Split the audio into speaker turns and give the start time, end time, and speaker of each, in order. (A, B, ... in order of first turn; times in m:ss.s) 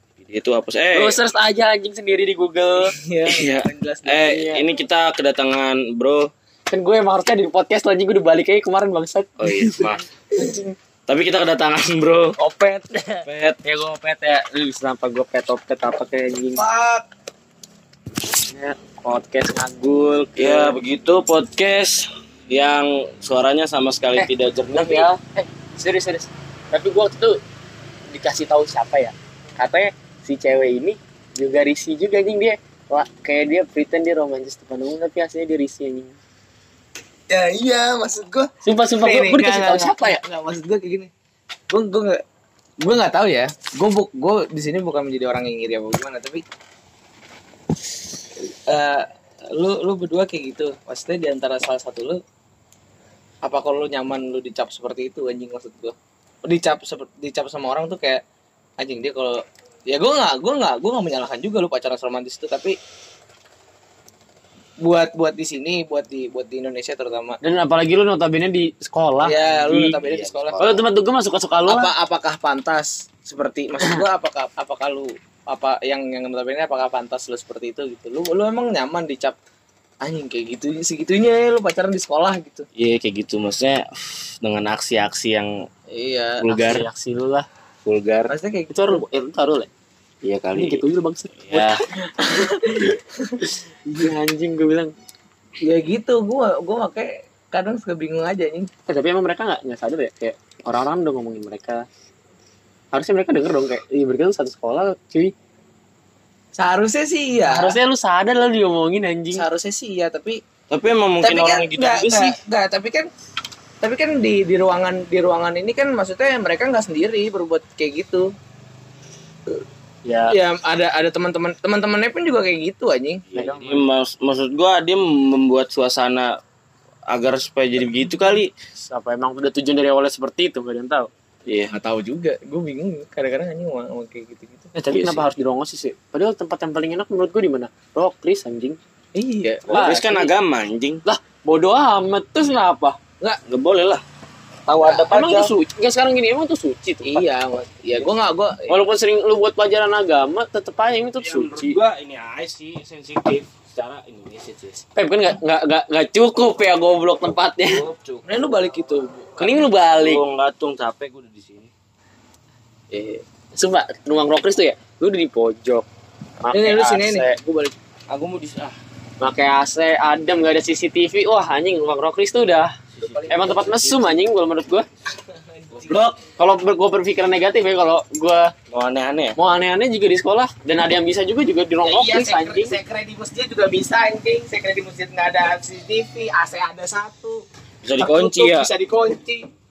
0:00.2-0:01.2 A
0:00.9-0:02.9 B
0:02.8-0:04.3 C
0:03.3-0:06.3 A
0:04.2-0:04.7 B
0:06.7-0:10.7 B
0:09.4-0:10.0 A
0:11.1-0:12.4 A
0:12.4-0:12.9 C
0:12.9-0:16.6 B
0:13.3-0:13.6 A
0:16.6-0:17.1 C
0:18.4-0:20.8 B
0:20.4-0:25.1 A
0:24.2-0:27.4 B
0:28.1-0:36.2 B
0:37.3-0:38.5 C
0:38.6-0:40.2 B
0:39.0-0:41.1 C
0:41.7-0:42.2 C
0:42.8-0:46.4 C
0:48.4-0:52.2 C
0:53.4-0:58.2 C
0:58.8-1:02.8 C
1:04.8-1:07.4 C
1:07.4-1:10.0 B
1:09.2-1:10.6 C
1:09.5-1:10.8 A
1:10.6-1:11.9 B
1:11.7-1:19.4 C
1:20.0-1:22.7 C
1:22.8-1:25.7 A
1:25.9-1:26.5 C
1:26.4-1:26.9 A
1:26.5-1:27.5 B
1:27.9-1:28.3 A
1:28.3-1:29.0 C
1:28.7-1:29.7 B
1:30.2-1:30.8 A
1:30.5-1:31.8 B
1:31.4-1:31.8 A
1:32.0-1:33.5 C
1:33.9-1:34.9 B
1:35.6-1:38.7 C
1:38.9-1:41.9 B
1:42.9-1:45.3 B
1:46.6-1:47.8 C
1:47.4-1:49.4 B
1:49.3-1:50.4 C
1:50.7-1:52.4 A
1:51.2-1:53.1 C
1:53.8-1:58.3 C
2:00.0-2:00.3 B
2:00.3-2:03.2 C
2:03.3-2:06.4 A
2:03.4-2:03.9 B
2:07.1-2:08.5 A
2:08.8-2:11.1 B
2:11.5-2:14.7 C
2:14.7-2:18.8 B
2:14.9-2:15.3 A
2:19.2-2:20.0 C
2:19.4-2:20.3 B
2:19.7-2:21.0 A
2:21.0-2:23.0 B
2:23.5-2:24.0 A
2:24.7-2:25.5 A
2:24.8-2:25.1 C
2:25.1-2:27.2 B
2:27.0-2:28.8 C
2:28.7-2:31.8 B
2:31.2-2:34.8 A
2:35.0-2:37.8 B
2:37.6-2:38.4 A
2:38.2-2:39.5 C
2:39.4-2:40.2 B
2:40.0-2:41.7 A
2:42.9-2:45.9 B
2:46.4-2:47.4 B
2:46.5-2:47.8 C
2:48.1-2:48.8 A
2:49.2-2:52.8 B
2:52.9-2:54.1 A
2:53.1-2:54.0 C
2:53.3-2:54.9 B
2:55.2-2:56.2 C
2:55.8-2:56.2 A
2:56.4-2:58.5 B
2:58.7-2:59.4 A
2:59.4-3:02.8 B
3:01.8-3:07.4 C
3:07.8-3:08.7 A
3:08.0-3:09.4 C